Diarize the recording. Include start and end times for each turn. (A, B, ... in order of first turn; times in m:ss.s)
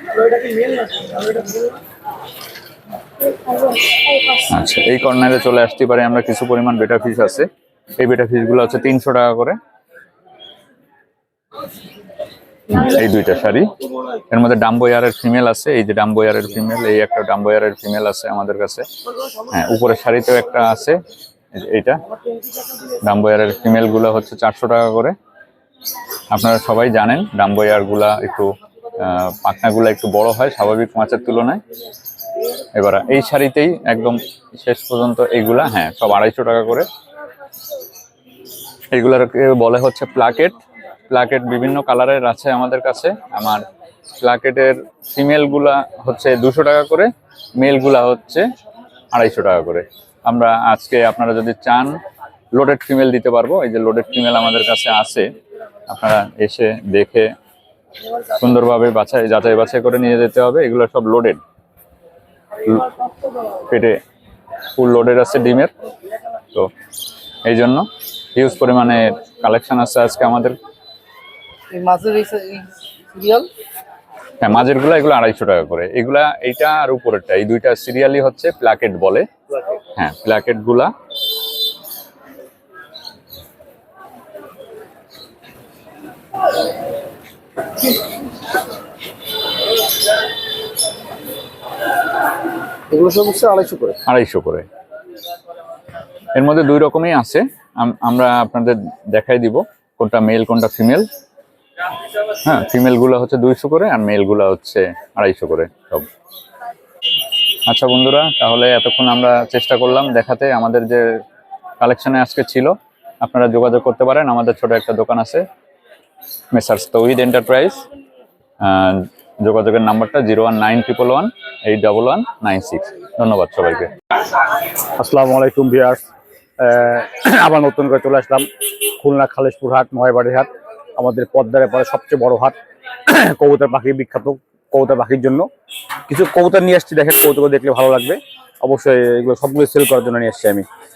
0:04.3-0:09.6 A
0:12.7-0:13.7 A
0:14.3-0:18.9 A
0:19.5-0:21.0 A
0:21.5-0:22.0 A
0:23.0-0:25.2 A
0:26.3-0:31.6 A
0:32.7-0:36.9 A
0:38.9-0:40.5 A
0:41.1-0:43.6 A
0:44.2-0:48.4 A
0:49.1-0:52.0 A
0:52.5-0:55.3 A
0:55.9-0:57.3 A
0:58.4-1:01.4 A
1:02.6-1:02.9 A
1:03.7-1:04.0 A
1:04.7-1:05.7 A
1:07.4-1:10.6 A
1:11.7-1:13.5 B
1:14.4-1:19.3 A
1:20.0-1:20.9 A
1:32.9-1:34.0 B
1:34.0-1:34.6 A
1:36.3-1:41.0 A
1:42.4-1:46.1 A
1:47.7-1:51.2 A
1:51.8-1:55.4 A
1:56.5-1:57.8 A
1:58.6-2:03.9 A
2:05.0-2:06.0 C
2:06.6-2:08.4 C
2:09.0-2:12.6 C
2:13.1-2:15.5 C
2:16.1-2:20.6 C